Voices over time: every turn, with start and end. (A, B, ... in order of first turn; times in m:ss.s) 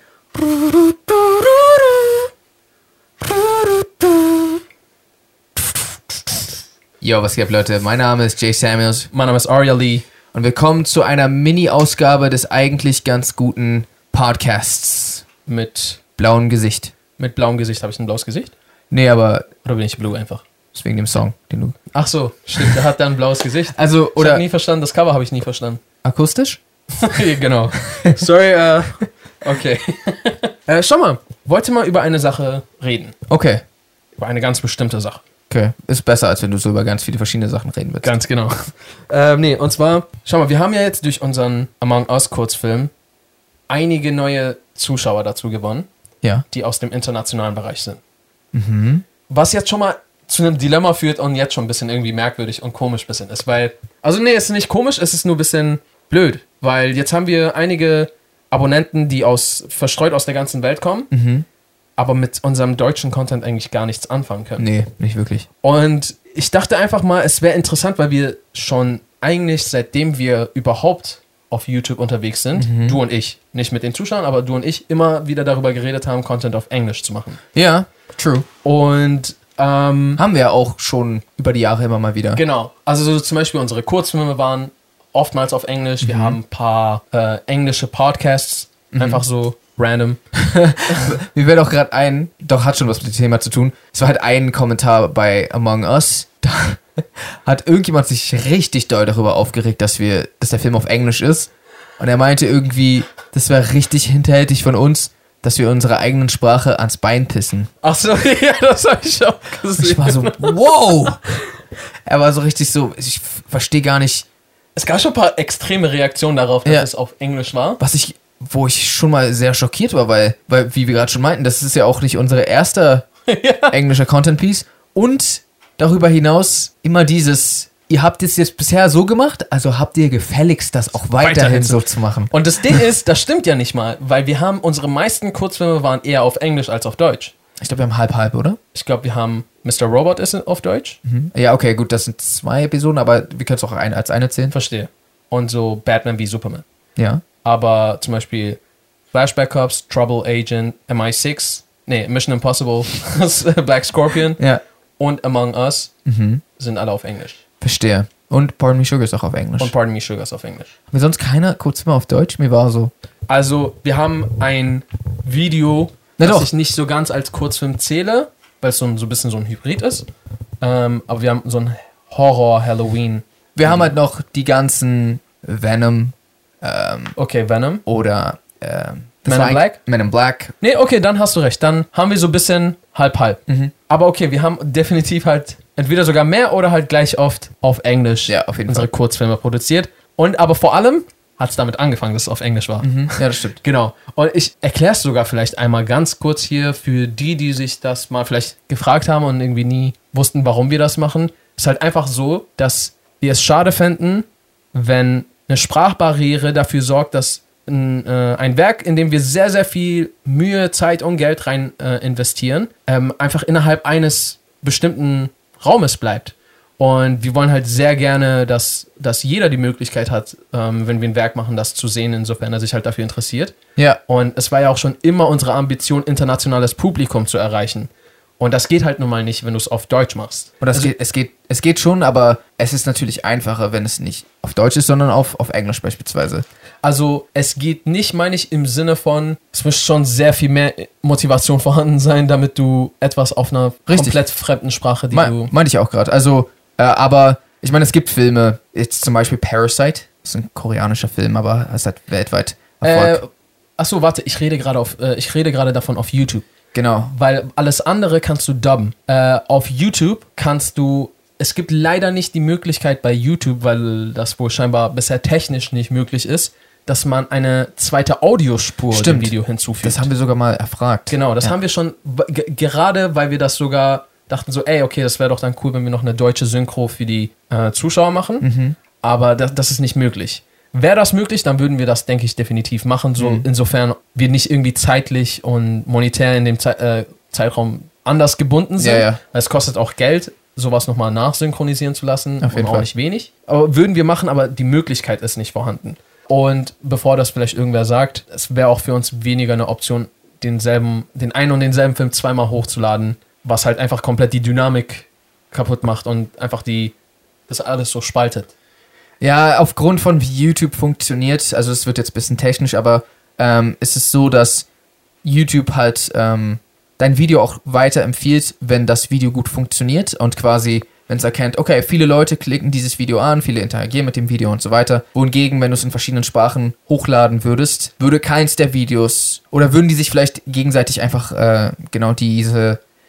0:00.4-0:02.2 A
0:03.2-0:04.5 A
0:07.0-0:09.1 A
0:09.1-0:10.0 B
0:10.3-0:15.2 A
0:15.5-0:16.0 B
0:16.2-0:16.9 A
0:17.2-0:18.5 B
0:18.9-0:19.5 A
0:19.6-0:20.4 B
0:20.7-0:21.8 A
0:21.9-0:25.8 B
0:23.7-0:24.4 A
0:26.0-0:26.6 A
0:27.0-0:33.1 B
0:33.3-0:33.6 A
0:34.2-0:35.2 B
0:35.5-0:38.2 A
0:38.0-0:42.9 B
0:43.7-0:45.9 B
0:46.5-0:48.0 B
0:48.5-0:49.0 A
0:49.3-1:01.1 B
1:01.1-1:01.4 A
1:02.0-1:04.7 B
1:04.6-1:05.5 A
1:05.6-1:17.4 B
1:12.6-1:13.0 A
1:17.5-1:18.4 A
1:18.6-1:20.2 B
1:20.2-1:22.4 A
1:22.3-1:30.2 B
1:26.0-1:26.4 A
1:28.9-1:29.2 A
1:30.4-1:47.7 A
1:30.9-1:31.1 B
1:47.8-1:50.9 B
1:49.8-1:51.2 A
1:52.1-1:54.2 A
1:54.8-1:57.8 B
1:57.8-2:03.1 A
2:03.3-2:03.8 B
2:03.7-2:12.8 A
2:11.2-2:17.3 B
2:17.6-2:18.6 A
2:18.7-2:21.0 B
2:21.0-2:24.5 A
2:24.5-2:26.6 B
2:27.0-2:27.2 A
2:27.4-2:28.6 B
2:29.1-2:34.4 B
2:35.0-2:35.9 B
2:36.0-2:36.4 A
2:36.6-2:37.4 B
2:37.6-2:39.7 A
2:39.6-2:40.7 B
2:40.9-2:42.9 A
2:43.3-2:50.0 B
2:46.2-2:46.5 A
2:50.6-2:53.9 B
2:53.6-2:57.2 A
2:57.2-2:57.8 B
2:57.8-3:00.5 A
2:59.2-2:59.8 B
3:00.6-3:43.5 B
3:08.3-3:08.9 A
3:12.8-3:13.6 A
3:44.1-3:50.9 B
3:50.6-3:56.4 A
3:56.8-4:05.5 B
4:03.9-4:04.2 A
4:05.1-4:13.2 A
4:12.8-4:16.4 B
4:16.7-4:17.1 A
4:17.1-4:30.1 B
4:28.9-4:31.5 A
4:31.1-4:38.5 B
4:38.4-4:38.8 A
4:39.0-5:06.9 B
4:43.2-4:43.4 A
4:48.8-4:49.2 A
4:52.4-4:52.9 A
5:07.5-5:08.5 B
5:09.2-5:14.7 A
5:15.2-5:32.8 A